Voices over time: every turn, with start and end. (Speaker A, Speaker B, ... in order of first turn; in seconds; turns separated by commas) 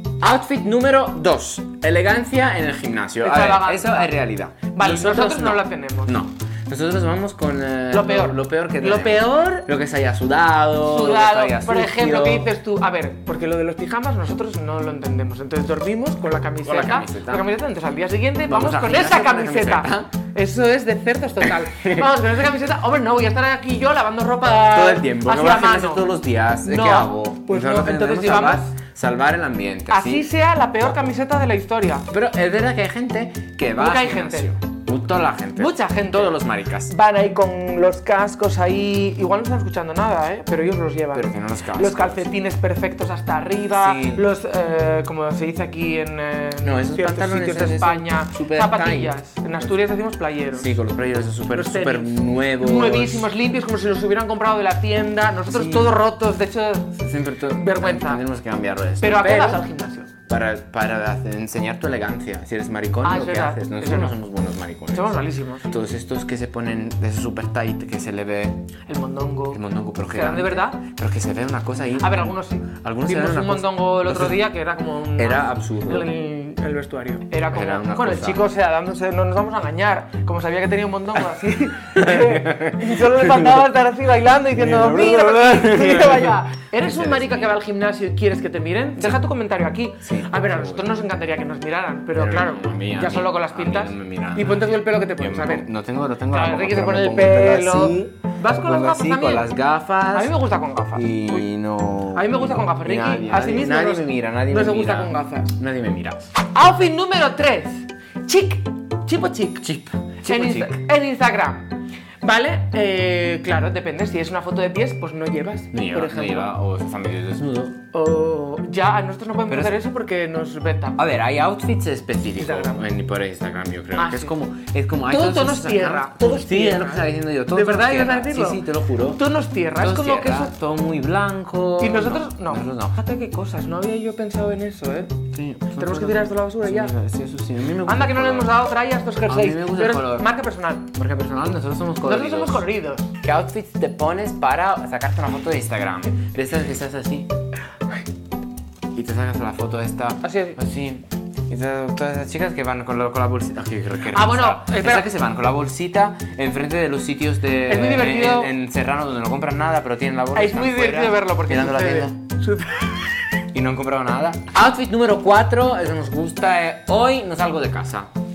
Speaker A: 0.2-12.5, Speaker B: 3.2-4.1, Speaker B: 4.7-6.1, Speaker B: 7.9-9.7, Speaker B: 10.8-26.0, Speaker A: 16.6-17.4, Speaker A: 18.4-20.1, Speaker A: 21.7-22.0, Speaker A: 24.4-30.3, Speaker B: 26.6-28.7, Speaker B: 29.9-32.0, Speaker A: 32.1-36.9, Speaker B: 33.8-34.5, Speaker B: 35.5-50.8, Speaker A: 41.1-42.3, Speaker A: 43.7-44.2, Speaker A: 46.6-49.8, Speaker A: 50.5-53.3, Speaker B: 51.5-57.0, Speaker A: 55.5-55.9, Speaker A: 57.0-59.6, Speaker B: 57.6-58.2, Speaker B: 59.0-60.1, Speaker A: 60.3-68.6, Speaker B: 63.0-64.1, Speaker B: 64.9-65.7, Speaker B: 68.9-70.8, Speaker A: 69.5-74.4, Speaker B: 72.0-95.7, Speaker A: 75.1-76.1, Speaker A: 77.5-78.4, Speaker A: 82.0-83.1, Speaker A: 84.5-87.6, Speaker A: 90.0-91.0, Speaker A: 92.1-100.4, Speaker B: 96.3-99.5, Speaker B: 100.1-101.5, Speaker A: 100.9-106.3, Speaker B: 102.1-105.5, Speaker B: 106.5-109.6, Speaker A: 109.6-110.8, Speaker B: 110.2-111.7, Speaker B: 112.2-116.5, Speaker A: 115.7-117.8, Speaker B: 117.9-121.0, Speaker A: 119.5-119.8, Speaker A: 120.9-129.2, Speaker B: 122.3-122.9, Speaker B: 124.0-124.3, Speaker B: 125.1-130.5, Speaker A: 129.8-132.9, Speaker B: 131.8-135.1, Speaker A: 135.3-138.5, Speaker B: 135.8-136.9, Speaker B: 137.8-140.8, Speaker A: 139.2-140.3, Speaker A: 140.9-142.6, Speaker B: 142.0-143.1, Speaker A: 143.2-147.3, Speaker A: 148.9-162.2, Speaker B: 150.2-150.6, Speaker B: 154.1-155.1, Speaker B: 157.7-158.5, Speaker B: 160.3-163.1, Speaker A: 163.5-168.1